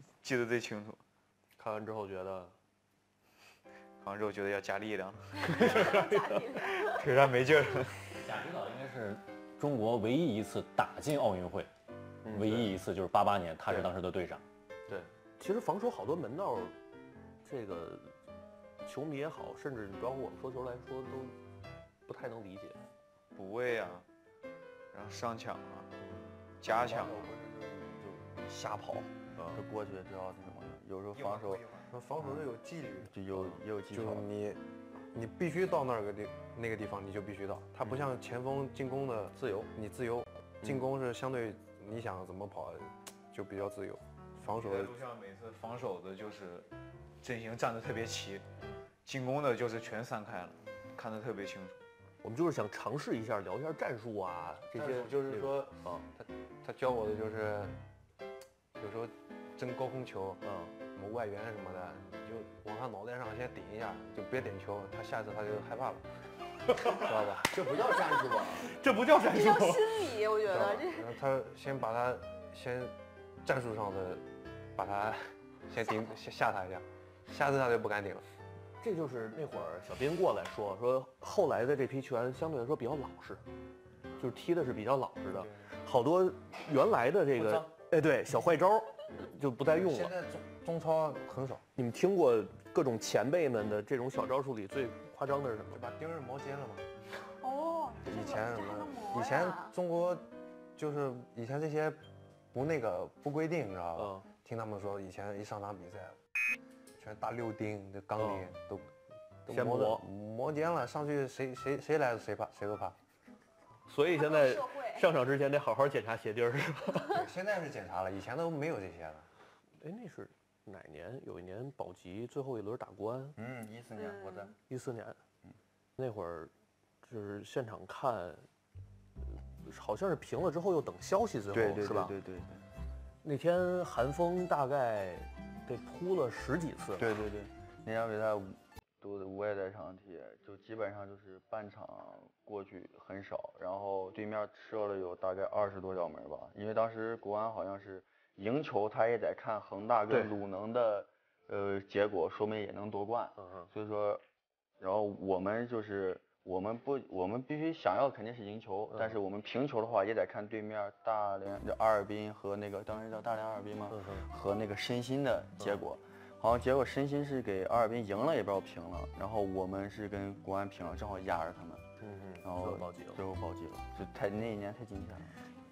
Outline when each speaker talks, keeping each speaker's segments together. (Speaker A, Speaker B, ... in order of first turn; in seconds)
Speaker A: 0.2-1.0, 4.0-6.0, 6.7-8.1, 23.4-24.1, 24.9-25.9, 26.6-27.2, 31.2-31.9, 44.5-46.7, 47.2-48.4, 49.0-51.8
Speaker B: 1.6-2.5, 5.4-6.4, 12.2-12.7, 14.9-16.8, 17.4-18.1, 18.8-21.4, 22.1-22.8, 26.0-26.3, 29.4-29.6, 37.8-38.1, 39.4-39.7, 52.2-56.1, 60.4-60.7, 68.7-70.0, 78.8-83.4, 84.2-90.1, 91.8-95.8, 104.0-104.2, 108.2-108.5, 109.5-110.1, 113.9-117.2, 119.8-123.4, 124.7-125.2, 126.0-126.5, 127.0-128.5, 129.7-132.1, 133.2-137.1, 153.4-153.7, 158.9-159.2, 163.9-164.3, 172.0-173.2
Speaker C: 5.4-7.1, 69.2-71.1, 97.4-99.8, 114.1-115.1, 124.0-124.5
Speaker D: 8.2-11.7, 12.3-14.4
Speaker E: 26.6-31.6, 33.0-34.3, 67.4-68.8, 123.4-124.5, 131.5-132.7, 137.0-154.2, 154.8-171.9, 172.4-175.4
Speaker F: 31.9-33.1, 33.9-34.6, 35.1-45.0, 54.7-57.8, 58.8-60.4, 60.9-66.0, 66.8-67.5, 70.5-74.2, 74.8-78.2, 85.4-85.6, 87.4-87.7, 89.7-91.7, 95.7-96.9, 98.0-100.3, 100.8-102.0, 102.5-106.2, 107.0-108.9, 109.5-113.0, 117.1-119.3